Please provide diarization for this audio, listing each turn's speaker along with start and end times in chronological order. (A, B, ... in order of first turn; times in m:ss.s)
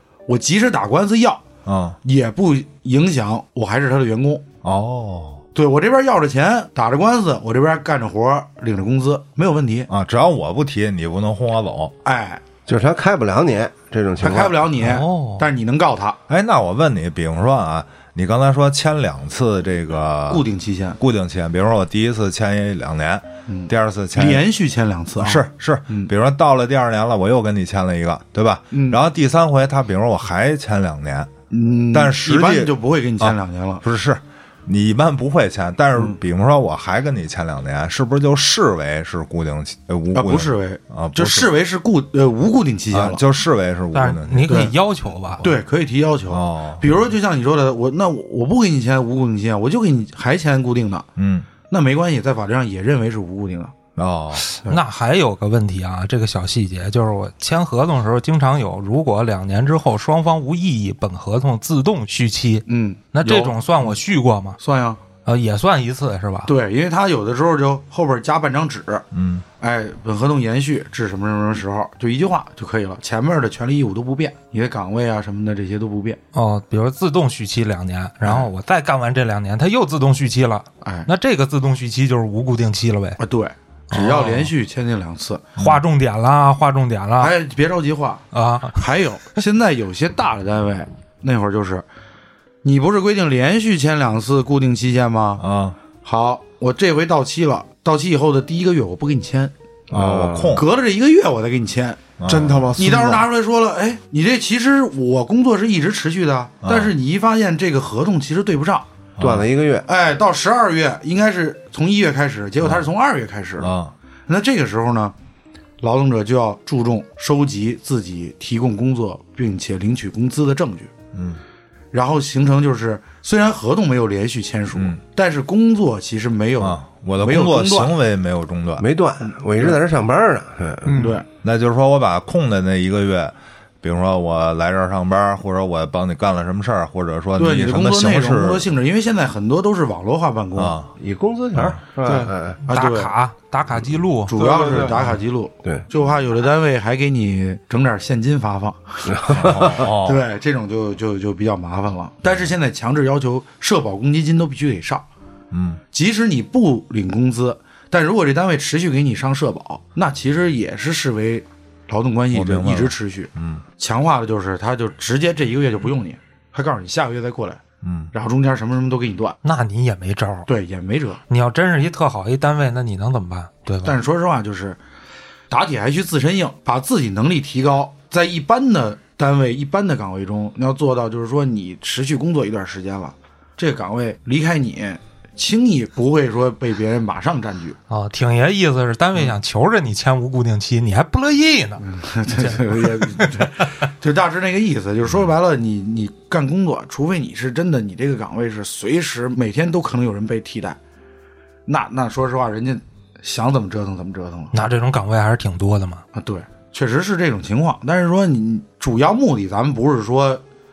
0:00.3-0:01.4 A
0:01.7-0:02.0 B
0:02.0-0:04.4 A
0:04.6-0:05.4 B
0:05.5-0:09.9 A
0:09.9-0:12.0 B
0:12.0-0:12.4 A
0:12.7-0:14.7 C
0:14.2-0:16.2 A
0:14.8-0:15.5 D
0:16.3-0:20.4 B
0:20.3-0:21.0 A
0:21.0-0:24.4 B
0:23.5-0:26.1 A
0:25.2-0:31.3 B
0:28.7-0:29.0 A
0:31.5-0:33.8 A
0:31.9-0:41.5 B
0:40.2-0:43.2 A
0:42.9-0:44.7 B
0:43.9-0:45.4 D
0:44.5-0:44.7 A
0:45.4-0:51.1 A
0:46.3-0:46.9 B
0:51.2-0:51.5 B
0:51.7-0:53.7 A
0:54.0-0:54.5 B
0:54.6-1:04.6 D
1:02.7-1:03.5 A
1:04.6-1:05.0 A
1:05.3-1:06.5 D
1:06.5-1:09.1 A
1:09.1-1:09.4 B
1:09.6-1:16.2 A
1:16.3-1:23.2 D
1:20.8-1:21.1 A
1:23.2-1:25.4 A
1:23.9-1:24.5 D
1:25.6-1:27.4 D
1:27.2-1:31.9 A
1:28.3-1:28.8 D
1:32.6-1:35.4 A
1:35.4-1:35.8 B
1:36.0-1:39.5 A
1:39.9-1:40.6 C
1:39.9-1:40.7 B
1:40.5-1:42.1 A
1:42.2-1:42.7 B
1:42.3-1:43.3 E
1:42.8-1:48.9 A
1:46.6-1:46.9 B
1:49.2-1:49.5 B
1:49.2-1:49.9 C
1:49.9-1:53.7 A
1:52.6-1:52.9 B
1:53.6-1:53.9 B
1:54.3-1:55.1 A
1:55.8-2:00.9 A
2:01.1-2:01.4 B
2:01.9-2:08.0 A
2:04.8-2:05.0 B
2:06.6-2:08.9 B
2:08.8-2:11.0 C
2:09.3-2:09.8 A
2:10.9-2:11.2 E
2:11.0-2:11.2 A
2:11.4-2:18.6 B
2:17.4-2:20.8 A
2:20.6-2:20.9 B
2:21.0-2:22.6 C
2:21.6-2:21.8 B
2:22.0-2:22.3 E
2:22.7-2:23.1 A
2:22.7-2:24.4 D
2:24.3-2:35.1 A
2:24.4-2:25.0 E
2:29.1-2:29.7 C
2:29.3-2:30.2 B
2:32.2-2:32.5 B
2:35.5-2:35.8 B
2:35.9-2:47.6 A
2:42.3-2:43.6 B
2:47.8-2:48.1 B
2:48.1-2:49.4 A
2:49.4-2:50.5 D
2:50.5-2:51.2 A
2:51.3-2:54.0 D
2:53.8-2:54.8 A
2:55.5-3:07.8 A
3:07.9-3:13.5 D
3:11.8-3:20.8 A
3:15.0-3:15.3 B
3:21.7-3:24.6 A
3:24.5-3:26.0 D
3:26.1-3:30.4 A